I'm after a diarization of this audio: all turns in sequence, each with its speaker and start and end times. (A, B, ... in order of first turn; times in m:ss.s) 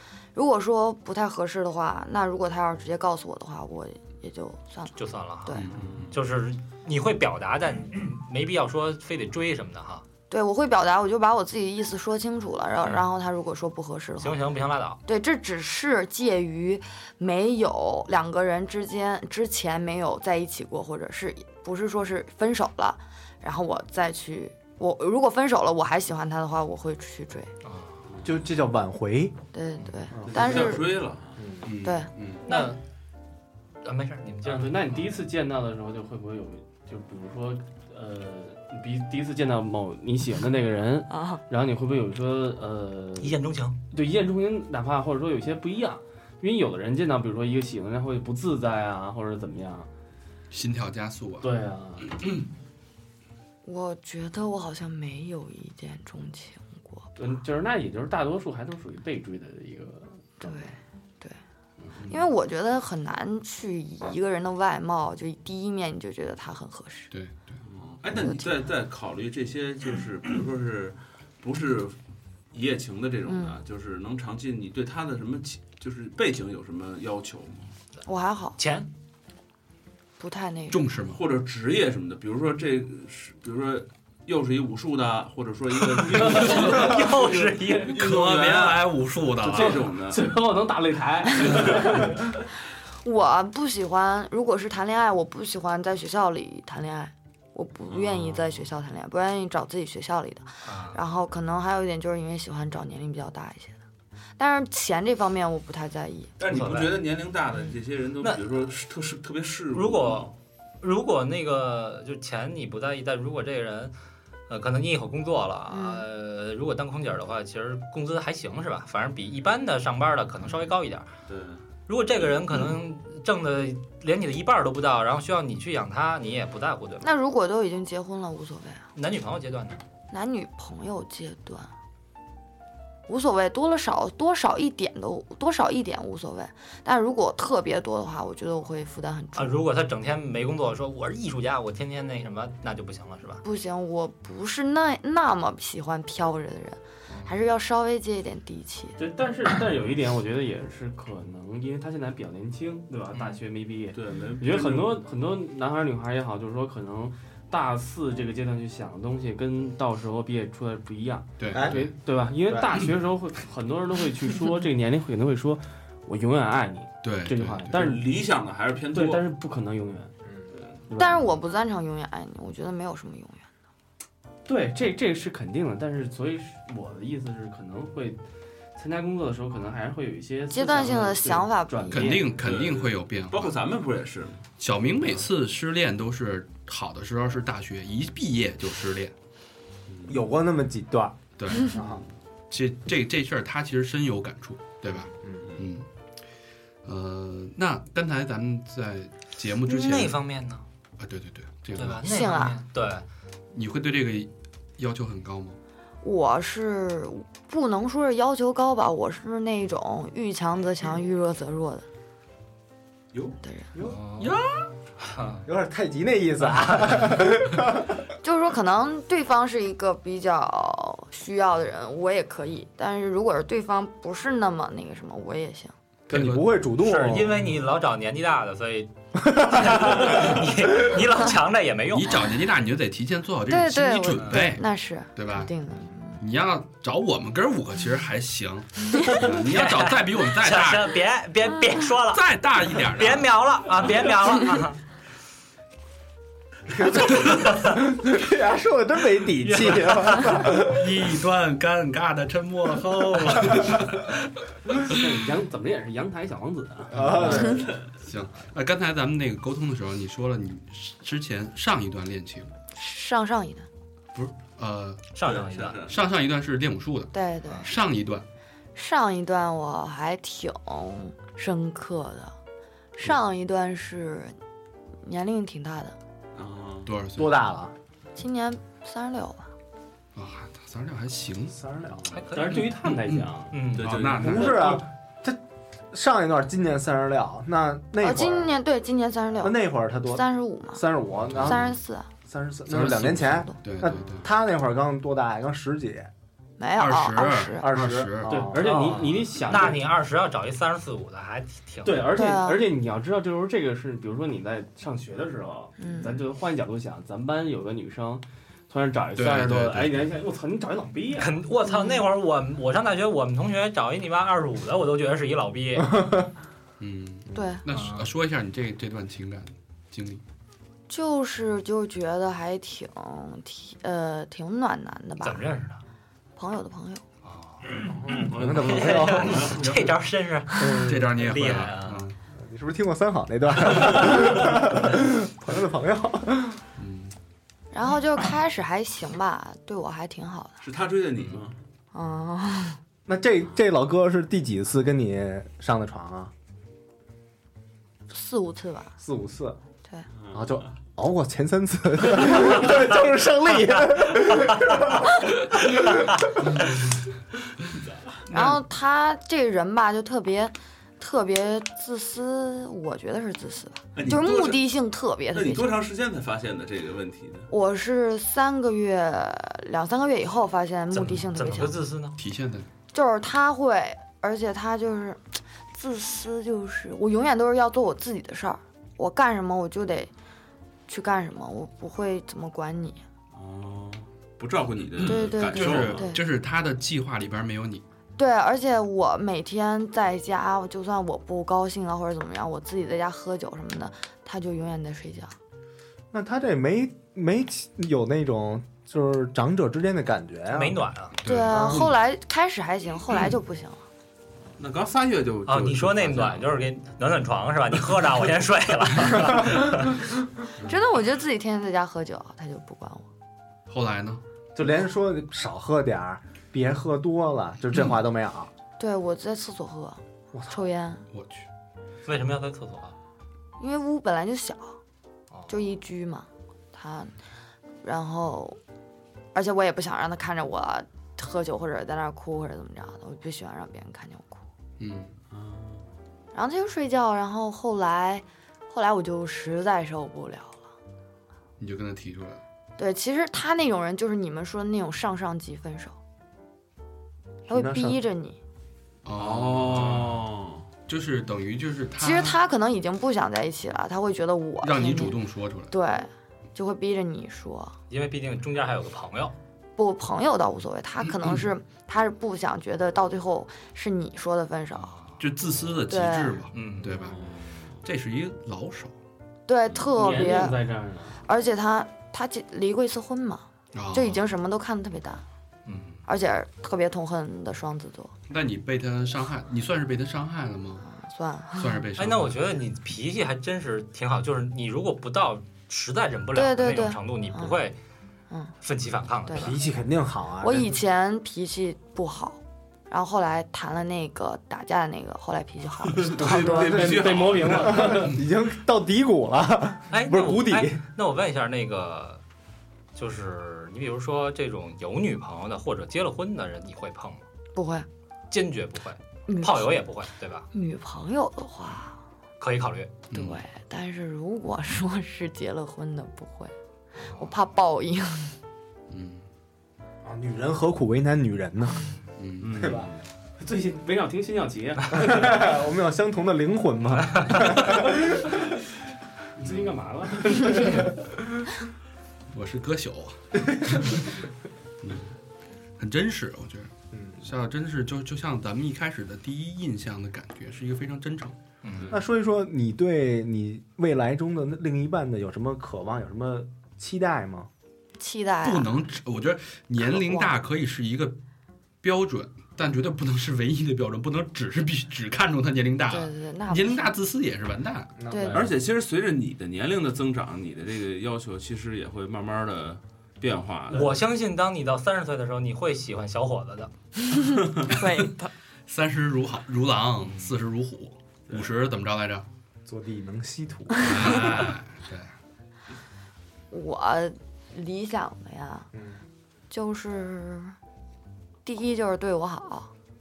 0:00.4-0:05.7 A
0:05.0-0:10.0 B
0:05.5-0:05.9 C
0:05.8-0:06.1 D
0:10.3-0:14.5 A
0:14.2-0:15.0 B
0:15.0-0:27.5 A
0:27.6-0:28.0 B
0:28.2-0:29.4 E
0:29.5-0:30.9 A
0:30.1-0:30.8 E
0:30.3-0:31.6 D
0:31.4-0:31.7 E
0:31.6-0:32.4 C
0:31.8-0:32.7 A
0:32.4-0:32.8 B
0:33.8-0:35.0 B
0:34.4-0:43.4 F
0:41.1-0:41.4 A
0:43.2-0:43.8 B
0:43.9-0:49.9 F
0:50.5-0:51.5 C
0:51.4-0:52.2 F
0:53.6-0:57.1 A
0:57.2-1:00.5 F
1:00.4-1:01.4 A
1:02.0-1:02.3 C
1:02.1-1:07.1 A
1:07.1-1:07.6 C
1:07.6-1:12.0 D
1:08.1-1:08.6 A
1:12.5-1:17.7 D
1:13.3-1:13.6 A
1:18.1-1:18.6 A
1:18.6-1:18.9 B
1:20.2-1:20.9 A
1:20.7-1:21.2 C
1:21.1-1:27.1 D
1:26.1-1:28.0 F
1:26.4-1:27.9 B
1:27.9-1:30.3 D
1:27.9-1:29.8 C
1:29.6-1:32.2 F
1:31.4-1:32.2 D
1:33.0-1:43.8 A
1:37.9-1:38.5 D
1:40.6-1:41.0 B
1:44.4-1:46.3 A
1:46.4-1:50.3 D
1:46.4-1:47.0 B
1:49.7-1:53.9 B
1:54.5-2:01.1 B
1:55.7-1:56.0 A
2:01.3-2:01.6 D
2:01.9-2:07.1 B
2:07.0-2:08.9 A
2:09.0-2:09.8 B
2:10.1-2:11.7 A
2:13.1-2:19.6 A
2:19.4-2:23.4 B
2:23.4-2:29.0 A
2:29.0-2:48.1 F
2:33.9-2:35.0 D
2:41.4-2:41.8 C
2:41.5-2:41.8 E
2:42.5-2:42.9 E
2:47.0-2:47.7 C
2:47.7-2:49.2 D
2:48.9-2:50.1 F
2:50.5-2:50.8 D
2:50.9-2:51.4 F
2:51.0-2:53.4 A
2:54.5-2:58.2 F
2:58.8-3:02.4 F
3:00.5-3:02.2 A
3:01.9-3:03.6 C
3:02.3-3:04.5 D
3:04.6-3:09.1 C
3:09.9-3:10.2 D
3:10.1-3:12.0 E
3:11.4-3:11.8 C
3:12.5-3:15.9 C
3:16.8-3:20.2 C
3:19.6-3:20.6 B
3:21.0-3:22.0 C
3:21.8-3:23.0 B
3:22.0-3:22.6 A
3:23.5-3:25.6 C
3:26.0-3:31.9 A
3:33.4-3:33.7 A
3:33.8-3:34.0 E
3:33.8-3:34.4 B
3:34.2-3:34.7 C
3:35.0-3:35.4 B
3:35.4-3:38.0 E
3:36.6-3:37.0 B
3:38.2-3:45.7 A
3:46.1-3:46.6 C
3:46.1-3:47.4 E
3:46.8-3:52.3 B
3:49.3-3:50.4 E
3:51.9-3:55.5 C
3:53.5-3:56.2 A
3:56.2-4:01.0 C
3:59.1-4:02.3 B
4:02.1-4:03.3 C
4:02.8-4:04.8 B
4:06.7-4:10.9 E
4:07.1-4:07.4 C
4:09.4-4:10.4 B
4:10.5-4:15.0 C
4:14.8-4:17.5 F
4:16.9-4:17.7 E
4:17.0-4:22.5 C
4:17.5-4:17.8 D
4:22.8-4:23.7 A
4:24.1-4:25.0 C
4:25.1-4:25.8 B
4:25.2-4:26.0 D
4:25.8-4:28.2 C
4:27.1-4:27.7 A
4:28.8-4:32.4 A
4:33.0-4:34.4 A
4:35.0-4:36.0 A
4:36.3-4:36.9 D
4:36.9-4:37.4 C
4:37.2-4:37.8 E
4:38.2-4:39.5 A
4:40.2-4:41.6 C
4:41.5-4:42.0 E
4:42.0-4:42.3 D
4:42.1-4:42.7 B
4:42.3-4:43.7 F
4:42.6-4:44.8 C
4:43.5-4:43.9 B
4:43.7-4:44.8 D
4:44.2-4:45.4 E
4:45.9-4:48.5 E
4:48.0-4:49.6 A
4:49.4-4:56.1 E
4:50.1-4:52.1 A
4:51.2-4:51.8 C
4:52.7-4:54.3 C
4:56.6-4:57.7 A
4:56.8-4:58.5 C
4:57.6-4:58.7 E
4:58.3-4:59.9 F
4:58.6-5:02.0 B
5:01.8-5:11.4 F
5:02.1-5:02.7 A
5:05.8-5:06.2 A
5:09.2-5:10.1 C
5:11.2-5:16.0 B
5:11.7-5:12.0 A
5:16.8-5:20.2 C
5:17.3-5:17.6 A
5:17.7-5:18.1 B
5:20.9-5:25.6 A
5:25.2-5:25.8 B
5:26.4-5:27.0 A
5:27.2-5:32.0 B
5:27.8-5:29.8 E
5:28.3-5:29.7 D
5:30.5-5:31.2 E
5:30.8-5:32.2 C
5:32.4-5:36.6 E
5:36.8-5:37.2 C
5:37.7-5:40.6 A
5:40.6-5:41.6 D
5:41.9-5:42.8 A
5:43.1-5:46.3 E
5:48.1-5:49.0 A
5:49.0-5:49.6 E
5:50.2-5:50.7 D
5:50.3-5:56.2 E
5:58.3-6:05.8 A
6:04.0-6:04.7 D
6:05.3-6:07.5 D
6:07.5-6:11.8 A
6:10.9-6:12.2 B
6:12.2-6:12.7 C
6:12.9-6:15.2 A
6:15.7-6:20.1 A
6:20.9-6:23.0 A
6:23.3-6:26.1 D
6:25.0-6:26.2 A
6:25.0-6:27.8 C
6:28.2-6:35.4 A
6:36.1-6:40.8 E
6:40.5-6:41.2 B
6:41.2-6:41.9 C
6:41.2-6:43.8 A
6:44.6-6:46.5 D
6:45.5-6:50.0 B
6:50.6-6:53.1 A
6:53.7-6:54.2 C
6:54.6-6:58.5 E
6:58.8-7:01.0 A
7:00.3-7:00.6 E
7:01.1-7:01.5 C
7:02.0-7:03.0 B
7:03.6-7:04.8 A
7:05.5-7:07.1 A
7:07.8-7:08.6 A
7:09.3-7:14.4 A
7:14.8-7:15.1 C
7:15.3-7:15.8 D
7:16.3-7:20.6 A
7:21.6-7:22.4 C
7:22.8-7:26.0 A
7:27.5-7:28.0 E
7:27.5-7:28.4 A
7:29.0-7:30.3 C
7:29.2-7:30.7 D
7:30.9-7:32.4 C
7:32.0-7:35.2 A
7:34.6-7:35.7 C
7:35.7-7:37.8 A
7:37.9-7:39.4 B
7:39.8-7:44.9 A
7:41.0-7:41.5 C
7:44.8-7:45.2 B
7:45.2-7:47.3 C
7:45.9-7:46.4 A
7:46.5-7:47.1 B
7:47.0-7:47.8 D
7:47.8-7:49.0 C
7:49.5-7:50.6 A
7:49.9-7:51.2 F
7:51.2-7:55.2 A
7:53.7-7:54.2 C
7:55.7-7:56.0 B
7:56.1-7:58.1 A
7:58.3-8:00.9 C
8:00.9-8:01.9 A
8:01.6-8:02.5 C
8:02.0-8:07.8 B
8:06.4-8:07.6 A
8:08.6-8:09.6 B
8:09.3-8:09.6 A
8:09.4-8:10.7 E
8:10.4-8:16.7 A
8:15.9-8:18.0 D
8:16.2-8:20.8 E
8:16.4-8:18.2 F
8:19.9-8:22.2 B
8:23.0-8:27.2 B
8:27.6-8:27.9 A
8:28.3-8:30.5 B
8:29.3-8:29.8 A
8:30.5-8:32.0 A
8:32.4-8:33.1 B
8:33.1-8:33.4 C
8:33.1-8:36.5 A
8:37.0-8:37.3 B
8:37.1-8:38.4 A
8:38.9-8:39.2 C
8:40.0-8:41.9 E
8:42.2-8:42.8 C
8:42.4-8:43.0 D
8:42.5-8:42.9 E
8:43.4-8:45.5 F
8:44.9-8:48.4 E
8:49.4-8:50.9 F
8:50.4-8:50.8 E
8:52.3-8:54.2 C
8:54.8-8:55.2 C
8:55.8-9:01.4 C
8:56.9-8:57.3 E
9:01.6-9:01.9 B
9:01.9-9:07.5 E
9:08.0-9:08.8 A
9:08.4-9:11.2 C
9:09.8-9:10.3 A
9:11.8-9:17.9 C
9:15.9-9:16.9 A
9:18.0-9:18.5 E
9:18.1-9:18.4 A
9:18.3-9:24.0 D
9:23.7-9:26.7 B
9:27.1-9:28.3 A
9:27.3-9:27.6 D
9:27.8-9:28.1 C
9:28.7-9:32.3 C
9:30.0-9:30.4 B
9:32.7-9:34.3 E
9:33.8-9:35.1 C
9:36.5-9:38.7 A
9:38.7-9:39.0 E
9:39.5-9:40.6 A
9:41.4-9:42.7 A